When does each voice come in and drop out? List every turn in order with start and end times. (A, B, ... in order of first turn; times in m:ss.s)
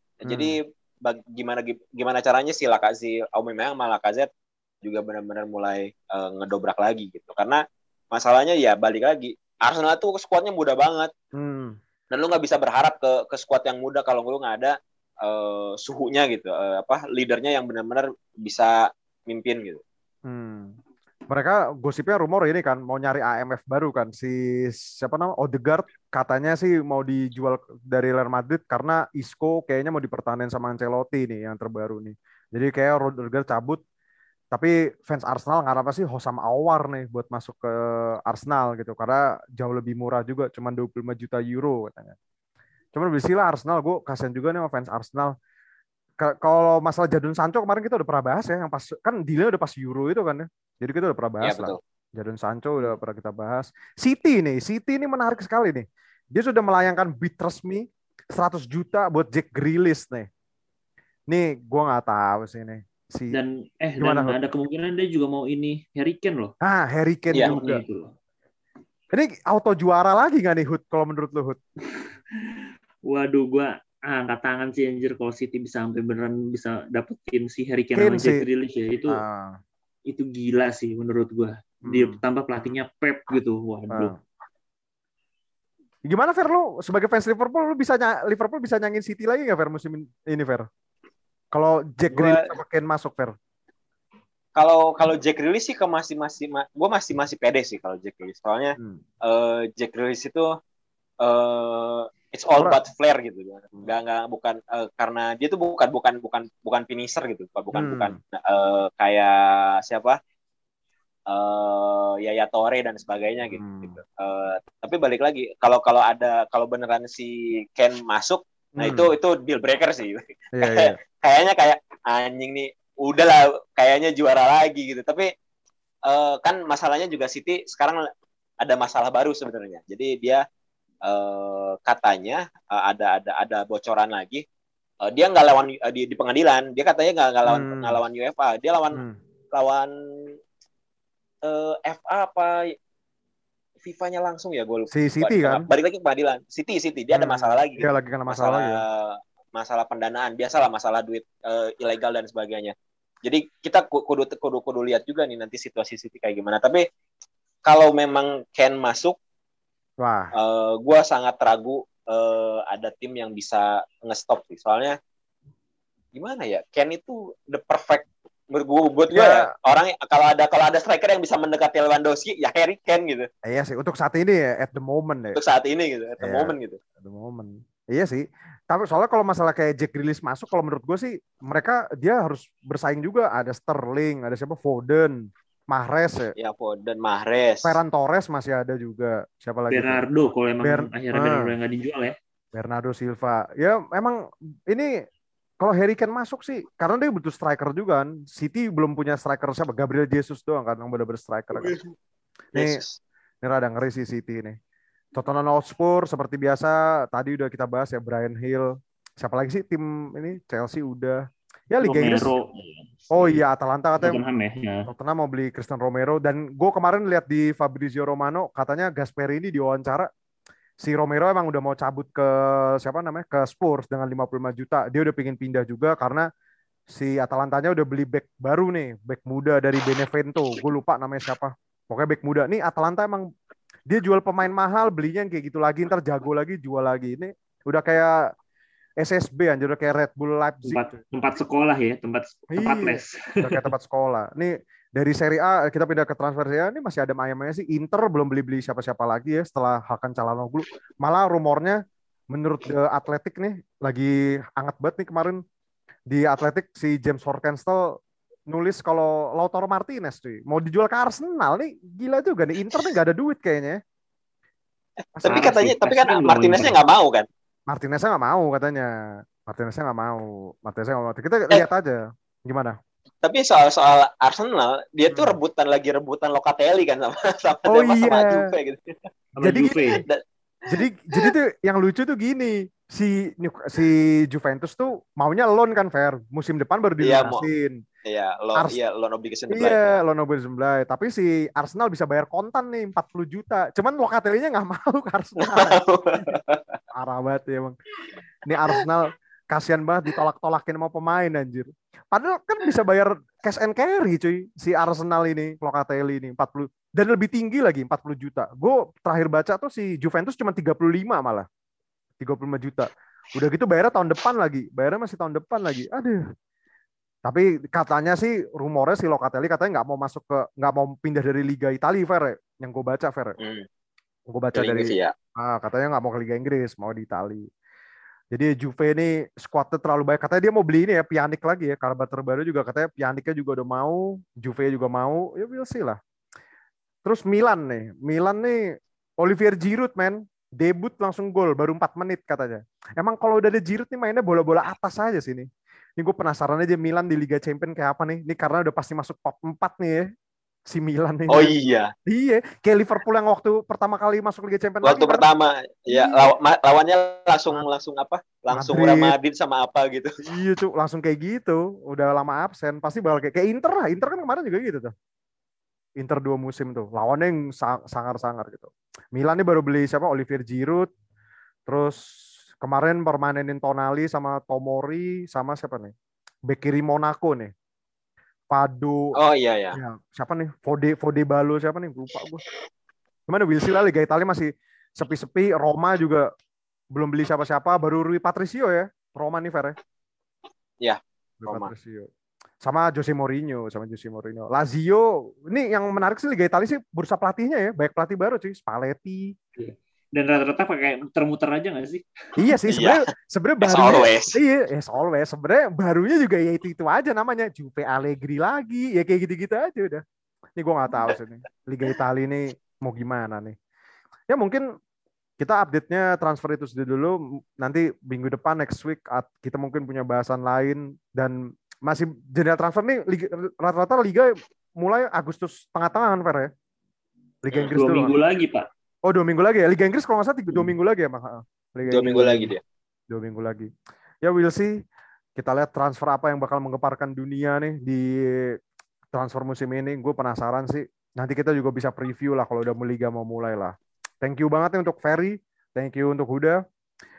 0:00.2-0:04.3 A
0:00.2-0:00.6 B
0:04.8-0:11.1 A
0:11.3-0:11.8 B
0:12.1-0:19.8 A
0:20.2-0:33.8 B
0:34.5-0:42.2 B
0:42.9-0:45.3 B
0:46.2-1:00.3 B
0:51.4-0:51.8 A
1:01.3-1:03.4 B
1:03.3-1:06.5 C
1:04.0-1:04.4 B
1:06.6-1:07.8 B
1:07.4-1:08.1 C
1:09.1-1:11.6 B
1:12.0-1:19.2 C
1:17.9-1:18.4 B
1:19.1-1:19.6 B
1:20.1-1:24.1 C
1:21.8-1:22.2 B
1:23.9-1:24.2 B
1:26.1-1:30.7 B
1:31.5-1:33.3 B
1:32.1-1:32.5 A
1:34.6-1:40.5 A
1:38.8-1:39.0 B
1:41.2-1:50.2 A
1:47.7-1:48.2 B
1:51.3-2:05.3 A
1:53.5-1:54.0 B
1:58.8-1:59.1 B
2:00.5-2:01.0 B
2:06.0-2:08.1 A
2:08.6-2:10.4 A
2:11.0-2:14.4 A
2:15.0-2:19.0 A
2:17.4-2:18.0 B
2:19.5-2:20.4 A
2:21.4-2:22.7 A
2:23.8-2:36.8 A
2:24.9-2:25.7 B
2:27.1-2:28.8 B
2:37.6-2:39.2 A
2:40.0-2:40.3 B
2:40.3-2:45.0 A
2:46.1-2:53.3 A
2:49.1-2:49.5 B
2:53.4-2:55.4 B
2:55.3-2:56.8 A
2:56.2-3:06.3 B
3:06.4-3:07.8 A
3:07.6-3:10.0 B
3:09.7-3:12.1 C
3:10.6-3:11.6 B
3:12.5-3:14.9 B
3:15.6-3:21.8 B
3:21.5-3:21.9 A
3:22.5-3:23.0 A
3:22.5-3:22.8 B
3:23.4-3:24.6 B
3:25.1-3:32.3 B
3:31.8-3:33.4 C
3:33.1-3:34.2 B
3:34.0-3:34.8 C
3:34.8-3:40.1 B
3:40.8-3:46.3 B
3:46.9-3:53.3 B
3:53.9-3:58.3 B
3:59.0-4:01.0 B
4:00.6-4:03.6 C
4:02.5-4:11.8 B
4:12.3-4:15.4 B
4:16.1-4:23.8 B
4:25.2-4:25.5 B
4:25.2-4:27.3 A
4:25.3-4:26.8 C
4:27.7-4:32.8 B
4:33.2-4:39.0 A
4:35.1-4:35.4 B
4:37.7-4:38.5 B
4:39.4-4:40.0 C
4:39.4-4:40.0 B
4:39.7-4:41.3 A
4:40.7-4:47.8 B
4:47.0-4:47.4 A
4:48.0-4:50.0 A
4:49.5-4:56.3 B
4:55.4-4:56.8 A
4:56.9-4:57.8 B
4:58.4-5:11.5 B
5:12.2-5:16.2 B
5:17.2-5:23.4 B
5:23.4-5:23.6 A
5:24.3-5:27.5 B
5:24.5-5:25.1 A
5:28.3-5:36.0 B
5:37.0-5:50.1 B
5:50.7-5:51.5 B
5:51.3-5:51.9 A
5:52.1-5:55.2 B
5:54.8-6:00.2 A
5:55.9-5:56.3 B
5:58.5-5:59.1 B
6:00.2-6:04.9 B
6:06.0-6:10.9 B
6:11.7-6:12.0 B
6:12.6-6:15.9 B
6:16.5-6:17.5 B
6:18.5-6:19.2 B
6:19.2-6:19.8 A
6:19.7-6:22.4 B
6:23.3-6:26.3 B
6:26.9-6:29.8 B
6:30.8-6:31.7 A
6:31.4-6:32.1 B
6:32.6-6:39.3 B
6:39.6-6:42.0 C
6:42.4-6:50.0 B
6:42.7-6:43.0 A
6:43.6-6:44.4 A
6:50.6-6:53.6 B
6:54.3-6:54.6 B
6:55.4-7:06.5 B
7:07.4-7:08.1 B
7:07.7-7:08.6 C
7:09.0-7:12.5 B
7:11.9-7:12.6 A
7:13.1-7:13.7 B
7:14.2-7:14.8 B
7:15.4-7:18.6 B
7:19.1-7:26.6 B